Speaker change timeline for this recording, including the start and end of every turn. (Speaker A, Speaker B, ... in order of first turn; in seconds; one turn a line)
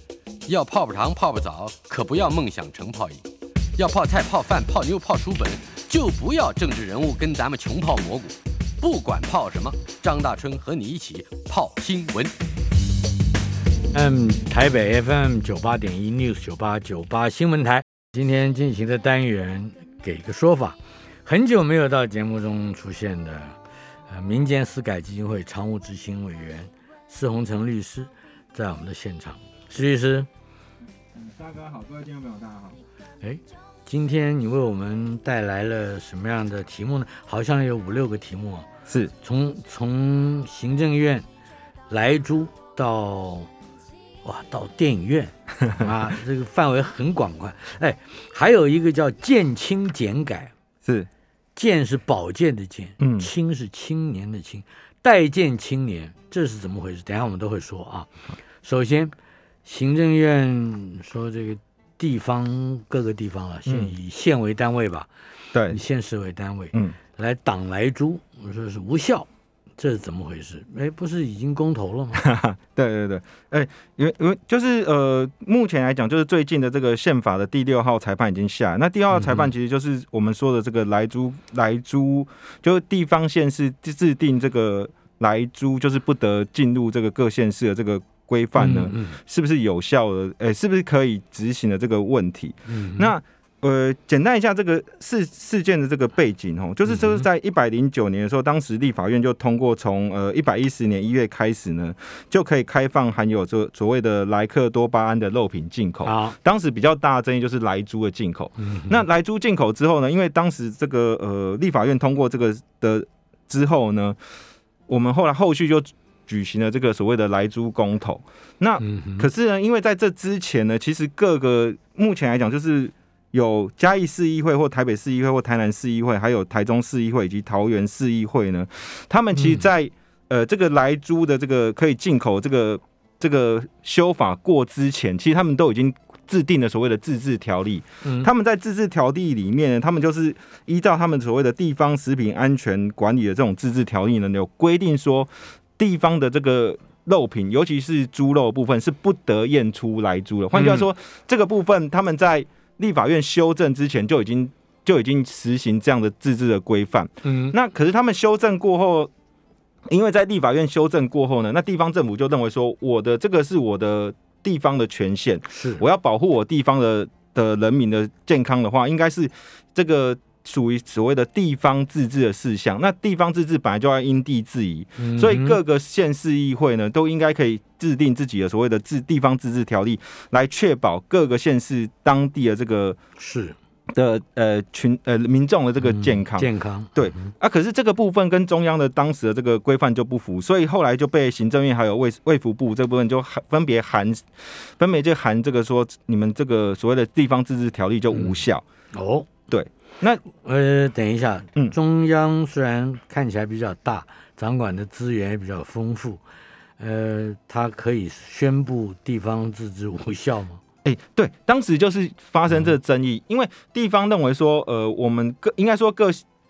Speaker A: 0.5-3.2
Speaker A: 3.8-12.3
Speaker B: 13.9-30.3
Speaker C: 31.1-32.8
Speaker B: 33.2-38.7
Speaker B: 39.2-41.2
Speaker B: 41.9-43.5
Speaker B: 44.2-50.5
Speaker B: 51.6-58.1
Speaker C: 53.0-53.3
Speaker B: 58.6-65.1
Speaker C: 63.7-63.9
Speaker C: 65.5-65.8
Speaker B: 65.7-72.2
Speaker C: 72.2-114.2
Speaker B: 79.1-79.5
Speaker B: 88.6-89.2
Speaker B: 92.7-93.1
Speaker B: 96.9-97.2
Speaker B: 106.0-106.4
Speaker B: 108.6-109.0
Speaker C: 114.9-159.1
Speaker B: 118.8-119.3
Speaker B: 129.3-129.7
Speaker B: 150.5-150.9
Speaker B: 157.2-157.6
Speaker C: 159.9-183.0
Speaker B: 165.5-165.8
Speaker B: 175.0-175.6
Speaker B: 183.2-183.6
Speaker C: 183.9-198.7
Speaker B: 185.8-187.3
Speaker B: 198.1-198.4
Speaker B: 198.9-199.3
Speaker C: 199.5-200.2
Speaker B: 200.3-206.2
Speaker B: 206.8-210.6
Speaker C: 210.8-216.2